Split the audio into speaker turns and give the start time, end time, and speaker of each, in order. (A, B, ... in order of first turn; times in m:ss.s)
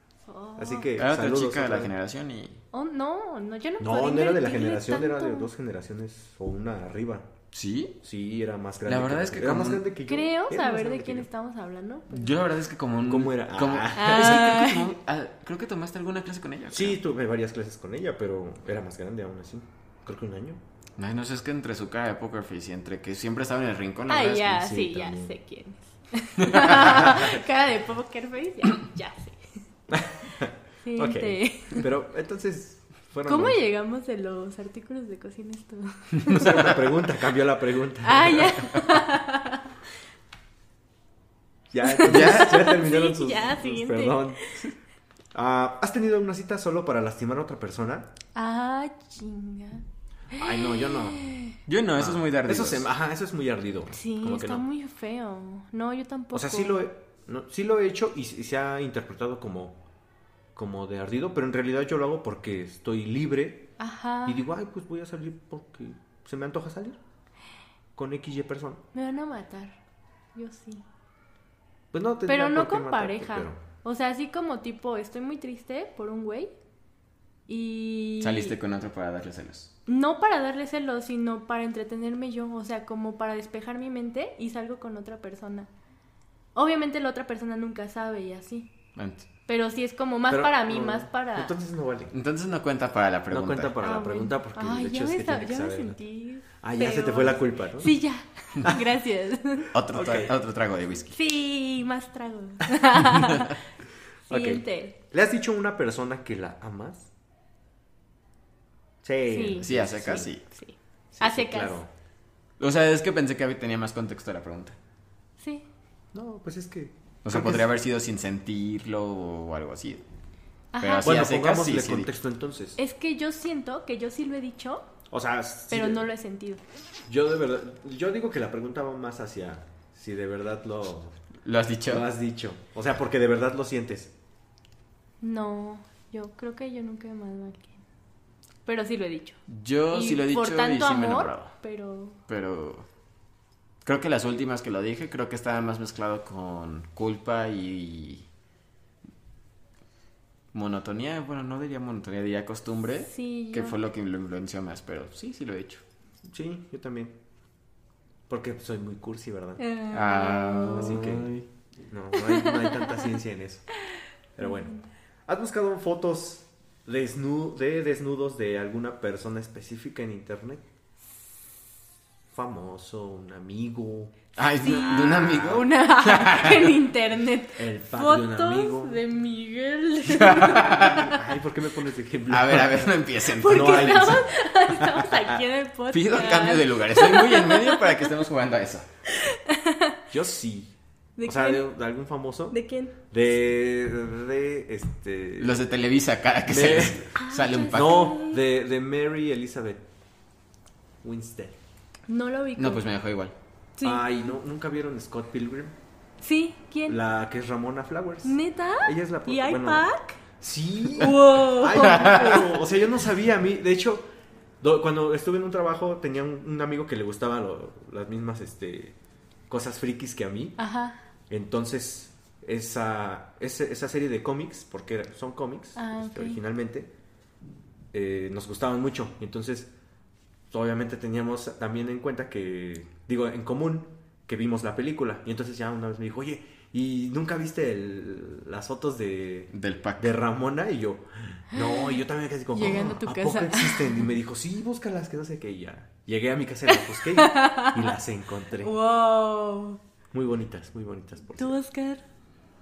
0:00.3-0:00.9 A
0:00.6-0:01.9 B
0:01.0-0:02.6 C
0:02.7-0:05.5 A
0:03.8-0:07.3 B
0:07.5-0:07.9 C
0:08.0-0:11.3 B
0:08.9-0:09.8 C
0:10.1-0:12.4 A
0:12.1-0:17.0 C
0:13.0-0:14.6 B
0:13.9-0:14.9 A
0:16.7-0:20.6 B
0:21.0-0:24.8 C
0:24.1-0:29.5 A
0:24.6-0:25.3 B
0:26.4-0:26.8 C
0:26.8-0:27.4 B
0:29.9-0:33.6 B
0:30.8-0:31.8 A
0:33.3-0:36.7 A
0:36.3-0:36.7 C
0:36.3-0:38.6 B
0:38.0-0:39.7 A
0:41.7-0:44.6 B
0:41.8-0:44.6 A
0:42.0-0:42.7 C
0:45.3-0:48.1 B
0:48.4-0:51.6 A
0:50.4-0:51.2 B
0:51.7-0:52.9 C
0:52.0-0:54.6 B
0:53.9-0:56.8 A
0:56.3-0:59.8 B
1:00.6-1:03.7 B
1:03.8-1:04.4 A
1:04.3-1:07.0 B
1:08.0-1:08.8 B
1:08.9-1:09.8 A
1:10.4-1:10.8 A
1:11.9-1:13.6 B
1:12.3-1:16.5 A
1:17.5-1:18.6 A
1:18.2-1:19.7 C
1:19.9-1:25.7 A
1:26.6-1:28.7 A
1:29.0-1:29.3 C
1:29.5-1:31.5 A
1:30.3-1:32.1 B
1:32.1-1:33.8 C
1:33.3-1:36.0 B
1:33.8-1:39.7 A
1:36.6-1:37.9 B
1:39.7-1:41.2 C
1:39.9-1:40.4 B
1:41.1-1:43.6 A
1:44.3-1:45.0 A
1:44.3-1:47.1 B
1:49.0-1:50.3 B
1:49.3-1:49.7 A
1:49.6-1:50.4 C
1:50.5-1:51.8 A
1:51.1-1:51.9 B
1:52.6-1:54.8 C
1:55.4-1:55.6 A
1:56.1-1:57.7 B
1:57.2-2:00.0 C
2:00.7-2:01.1 A
2:00.8-2:02.1 C
2:01.0-2:02.8 B
2:02.8-2:04.9 A
2:05.1-2:06.0 B
2:05.7-2:06.6 A
2:07.1-2:11.2 B
2:11.4-2:12.1 C
2:11.9-2:14.1 B
2:15.2-2:17.8 A
2:18.7-2:19.4 A
2:19.5-2:21.5 C
2:19.9-2:22.2 A
2:22.3-2:22.9 C
2:23.8-2:28.2 C
2:30.5-2:35.8 C
2:33.0-2:33.8 A
2:36.2-2:37.2 B
2:38.3-2:39.6 B
2:39.6-2:41.0 A
2:39.9-2:41.5 C
2:40.7-2:41.3 B
2:41.9-2:43.7 B
2:42.2-2:43.0 A
2:43.9-2:44.9 A
2:44.4-2:44.8 B
2:45.3-2:50.6 B
2:52.3-2:54.2 B
2:54.4-2:56.7 C
2:54.6-3:01.2 A
2:54.9-2:55.7 B
2:57.6-2:59.0 B
3:00.1-3:01.0 C
3:00.4-3:05.4 B
3:02.3-3:04.2 C
3:03.4-3:08.1 A
3:05.9-3:08.9 C
3:09.1-3:10.0 A
3:10.1-3:10.7 B
3:11.2-3:11.7 A
3:11.2-3:12.6 B
3:12.5-3:13.0 A
3:13.1-3:15.6 B
3:15.4-3:18.1 C
3:16.5-3:17.1 B
3:17.2-3:18.4 A
3:17.7-3:19.8 B
3:21.0-3:21.6 B
3:22.1-3:22.8 A
3:22.6-3:23.3 C
3:23.8-3:24.3 A
3:23.8-3:25.8 B
3:26.2-3:27.0 A
3:26.9-3:29.9 B
3:28.2-3:30.2 A
3:30.4-3:34.1 B
3:30.9-3:32.5 A
3:31.8-3:32.4 C
3:34.6-3:39.0 B
3:39.5-3:40.6 B
3:40.6-3:41.0 A
3:41.3-3:46.9 B
3:45.8-3:46.4 A
3:47.9-3:49.7 B
3:50.5-4:08.7 B
3:59.5-4:00.2 C
4:01.6-4:02.0 A
4:02.5-4:04.1 A
4:06.7-4:07.9 A
4:08.6-4:09.8 A
4:10.1-4:11.6 B
4:11.4-4:12.0 A